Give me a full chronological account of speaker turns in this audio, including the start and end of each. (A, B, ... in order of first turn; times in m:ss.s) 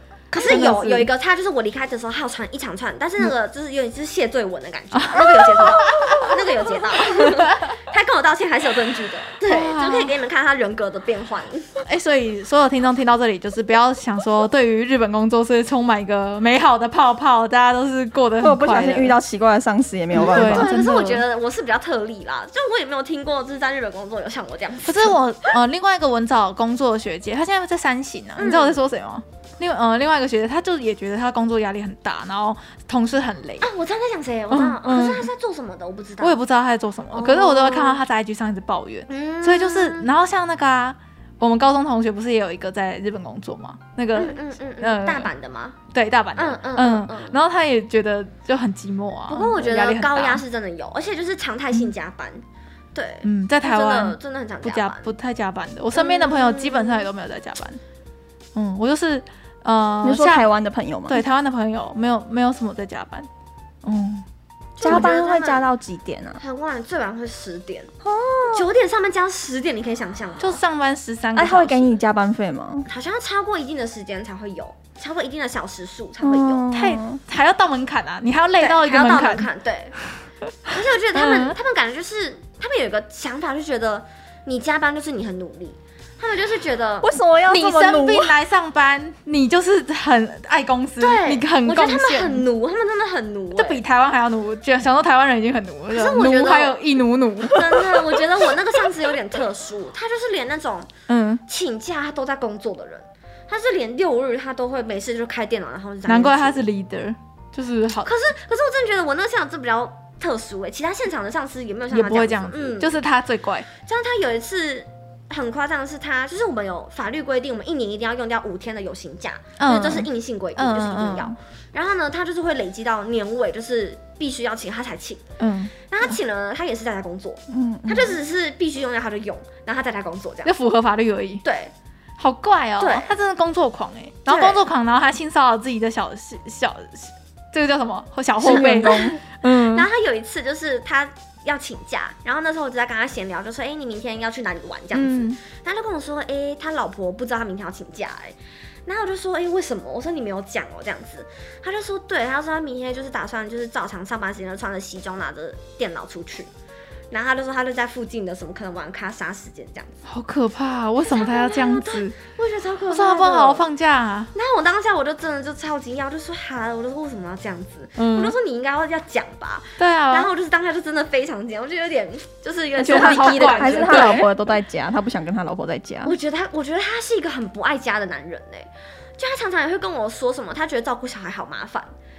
0:00.3-0:11.8 A
0:00.4-0:01.1 B
0:05.0-0:06.2 B
0:09.5-0:10.1 B
0:11.8-0:19.1 B
0:18.4-0:20.7 C
0:20.1-0:21.2 B
0:20.2-0:25.5 A
0:24.8-0:33.7 B
0:28.4-0:28.8 A
0:33.6-0:36.4 A
0:34.5-0:35.3 B
0:36.2-0:45.3 B
0:37.1-0:38.0 A
0:39.1-0:40.1 A
0:44.1-0:45.8 A
0:45.9-0:50.4 B
0:46.4-0:47.4 A
0:49.3-0:52.4 A
0:52.9-0:55.1 A
0:53.2-0:57.8 B
0:55.9-0:57.1 A
0:58.5-1:00.4 B
1:00.0-1:01.2 C
1:01.1-1:03.3 B
1:03.8-1:04.2 B
1:04.8-1:05.6 A
1:04.8-1:06.4 C
1:04.8-1:05.1 B
1:06.4-1:07.9 A
1:08.0-1:08.6 C
1:08.5-1:10.6 A
1:10.4-1:11.9 B
1:11.4-1:12.9 C
1:12.9-1:16.6 A
1:16.2-1:17.2 C
1:16.7-1:19.5 B
1:18.6-1:19.9 A
1:20.7-1:27.2 A
1:21.1-1:21.5 B
1:27.0-1:28.3 C
1:27.5-1:32.4 B
1:31.0-1:33.8 A
1:33.5-1:38.0 B
1:35.9-1:36.8 A
1:37.4-1:40.9 A
1:41.1-1:41.4 B
1:41.5-1:46.7 A
1:46.1-1:48.1 B
1:48.0-1:53.0 A
1:51.9-1:53.7 B
1:53.8-2:05.2 A
1:59.6-2:01.3 B
2:05.4-2:05.7 B
2:05.9-2:10.5 A
2:07.5-2:08.2 C
2:10.4-2:11.4 B
2:11.4-2:11.7 A
2:12.2-2:19.9 B
2:12.8-2:13.1 A
2:14.3-2:14.6 A
2:18.4-2:36.5 A
2:18.4-2:19.2 C
2:24.9-2:25.4 B
2:37.1-2:40.0 A
2:40.0-2:42.1 B
2:41.1-2:43.6 A
2:42.9-2:44.3 B
2:44.3-2:54.3 A
2:48.0-2:48.3 B
2:49.8-2:50.3 B
2:52.8-2:56.2 C
2:52.8-2:54.2 B
2:56.0-3:01.9 A